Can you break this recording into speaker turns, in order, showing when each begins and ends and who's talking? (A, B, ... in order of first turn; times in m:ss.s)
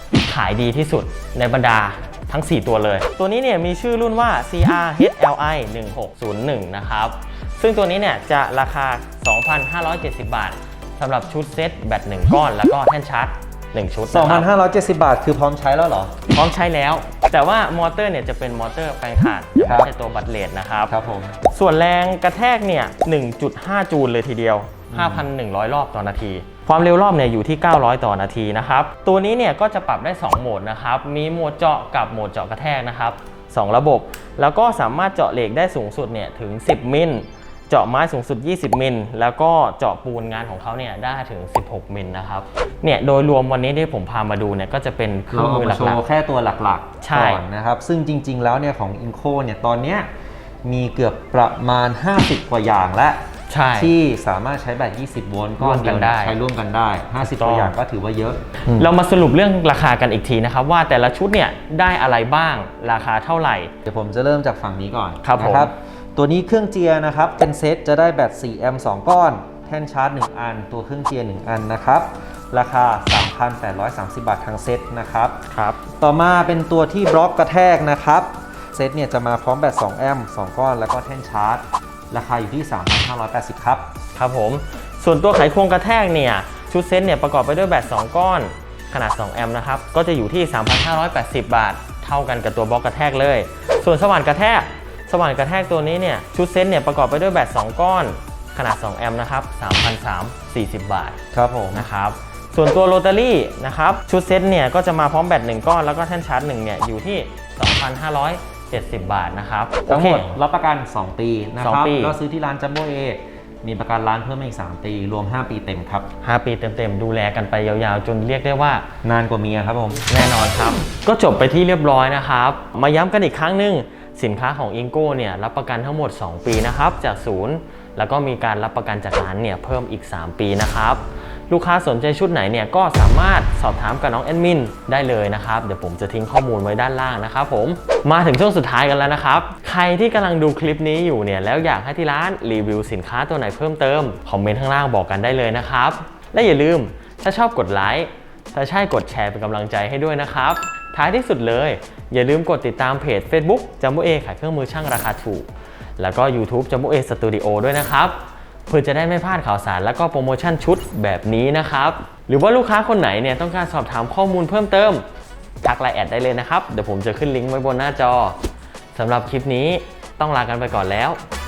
0:00.3-0:14.5 A
0:14.1-0:16.1 B
0:16.3-0:20.9 A
0:19.6-0:19.9 B
0:20.9-0:21.4 B
0:21.5-0:46.0 A
0:24.9-0:25.3 B
0:45.3-0:50.1 B
0:47.0-0:47.4 A
0:50.6-0:53.2 B
0:53.5-0:53.9 A
0:53.7-0:58.9 B
0:55.6-0:56.4 A
0:57.2-0:57.8 A
0:58.7-1:03.7 A
1:03.8-1:15.4 B
1:05.2-1:05.7 A
1:15.5-1:15.8 A
1:16.0-1:23.9 B
1:24.2-1:41.2 A
1:41.3-1:41.9 B
1:41.7-1:50.4 A
1:49.9-1:56.1 B
1:51.6-1:52.2 A
1:56.2-1:58.8 A
1:59.0-2:00.1 B
2:00.1-2:45.0 A
2:45.6-2:48.4 A
2:48.9-2:51.2 A